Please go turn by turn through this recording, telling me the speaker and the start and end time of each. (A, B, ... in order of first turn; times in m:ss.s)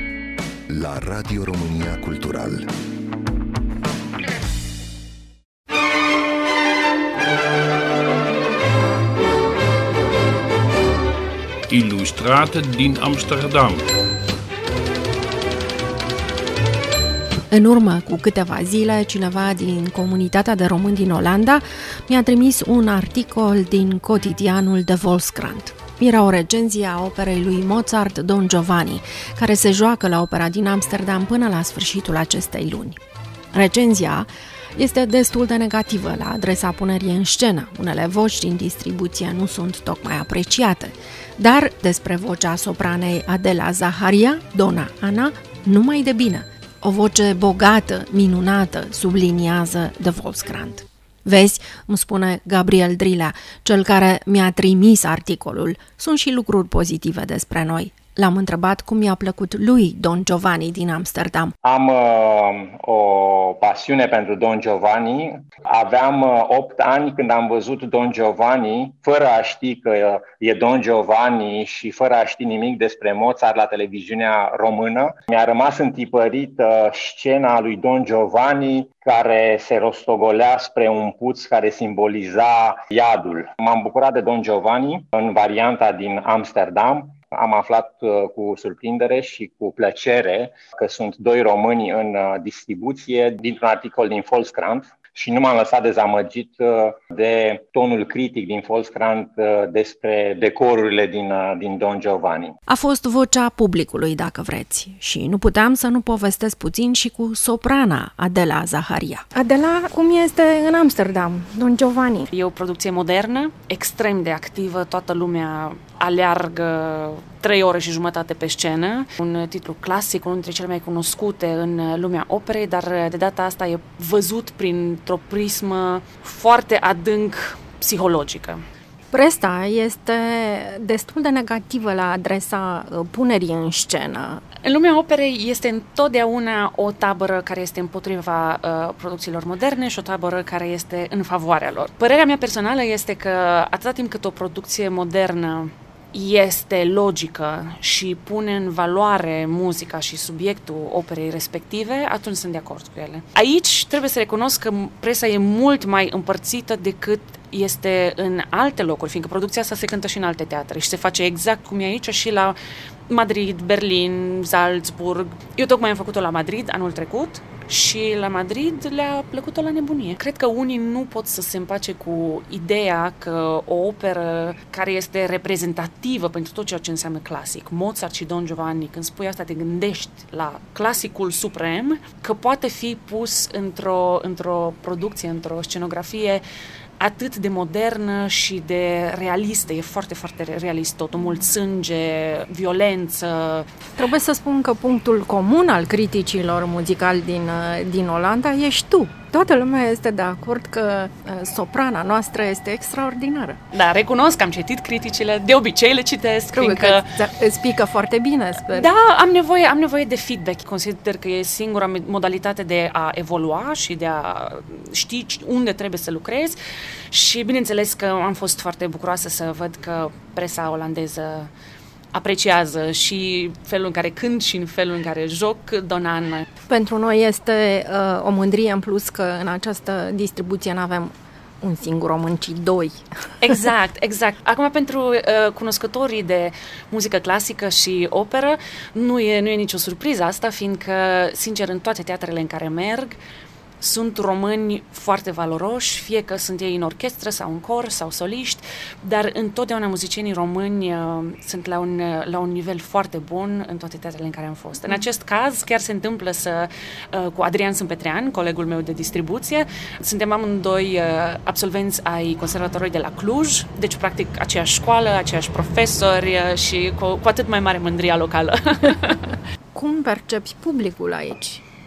0:00.7-0:02.7 A
0:11.7-0:13.8 B
0:17.5-0:33.0 C
0:33.5-1:01.5 C
1:01.6-1:42.5 D
1:42.7-1:52.3 C
1:52.3-2:08.6 E
2:09.1-2:14.4 C
2:14.6-2:42.6 E
2:43.1-3:06.4 E
3:07.0-3:13.7 E
3:14.0-3:23.6 C
3:23.7-3:27.1 E
3:26.6-3:28.9 C
3:28.7-3:36.6 E
3:37.1-3:41.5 E
3:42.1-3:46.5 E
3:46.7-3:53.0 C
3:53.4-4:03.2 E
4:03.8-4:29.4 E
4:29.8-4:31.6 C